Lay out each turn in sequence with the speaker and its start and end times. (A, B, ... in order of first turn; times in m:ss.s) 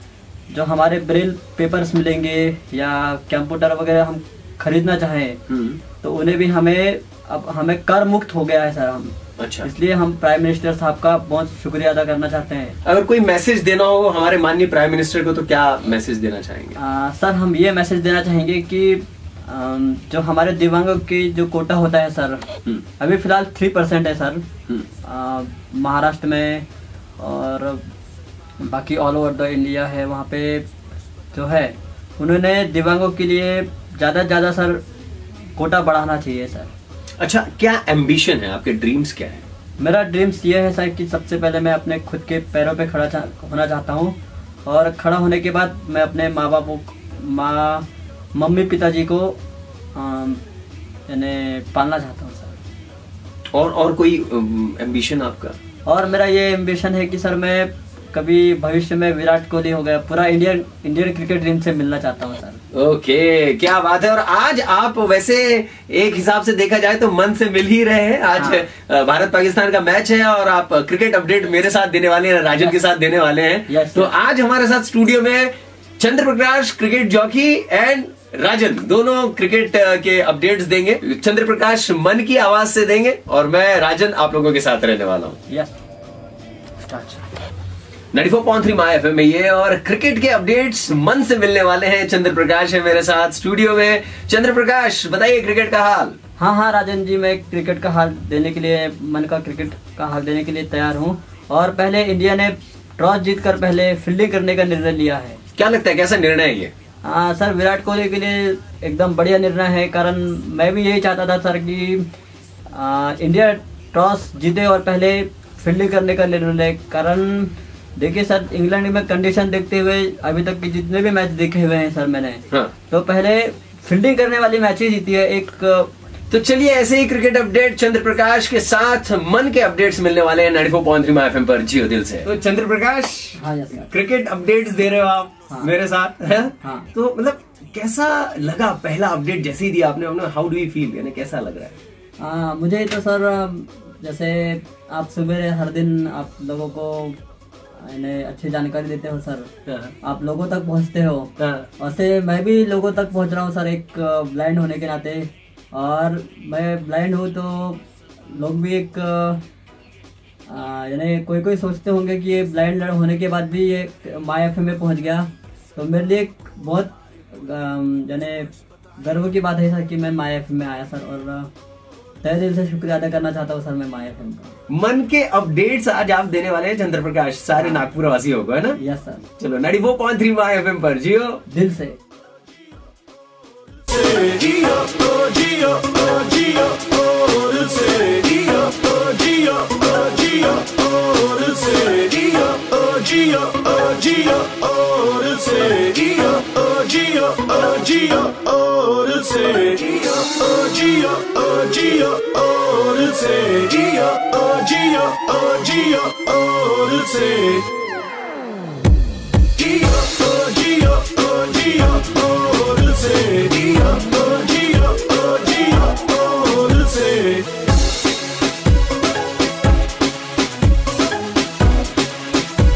0:00.5-0:05.4 A
0:05.5-0:05.8 B
0:06.0-0:12.8 A
0:09.4-0:09.7 B
0:12.8-0:16.8 B
0:16.8-0:22.4 A
0:23.0-0:24.4 A
0:25.0-0:26.6 A
0:27.2-0:27.8 A
0:28.6-0:30.6 A
0:31.3-0:34.8 A
0:35.6-0:36.7 A
0:37.2-0:39.4 B
0:39.8-0:49.4 A
0:49.9-0:50.4 A
0:51.1-0:52.6 A
0:53.5-0:55.6 B
0:55.8-1:02.6 A
1:02.7-1:25.4 B
1:08.4-1:08.6 A
1:13.7-1:14.1 A
1:25.5-1:25.7 A
1:26.9-1:27.2 A
1:28.1-1:36.2 B
1:36.4-1:45.4 A
1:45.6-1:46.7 B
1:47.0-1:52.0 A
1:52.7-2:05.9 A
2:06.3-2:13.4 B
2:13.4-2:13.9 A
2:13.9-2:21.7 B
2:16.6-2:16.9 A
2:22.2-2:27.2 A
2:27.8-2:29.5 A
2:29.7-2:29.9 B
2:30.0-2:39.4 A
2:31.4-2:31.7 B
2:40.5-2:48.5 A
2:49.0-2:51.5 A
2:52.2-2:54.6 A
2:54.7-2:58.8 B
2:57.6-2:57.8 A
2:58.8-2:59.2 A
2:59.4-3:01.4 B
3:01.5-3:02.0 A
3:07.4-3:14.3 C
3:15.0-3:27.6 C
3:29.6-3:37.4 C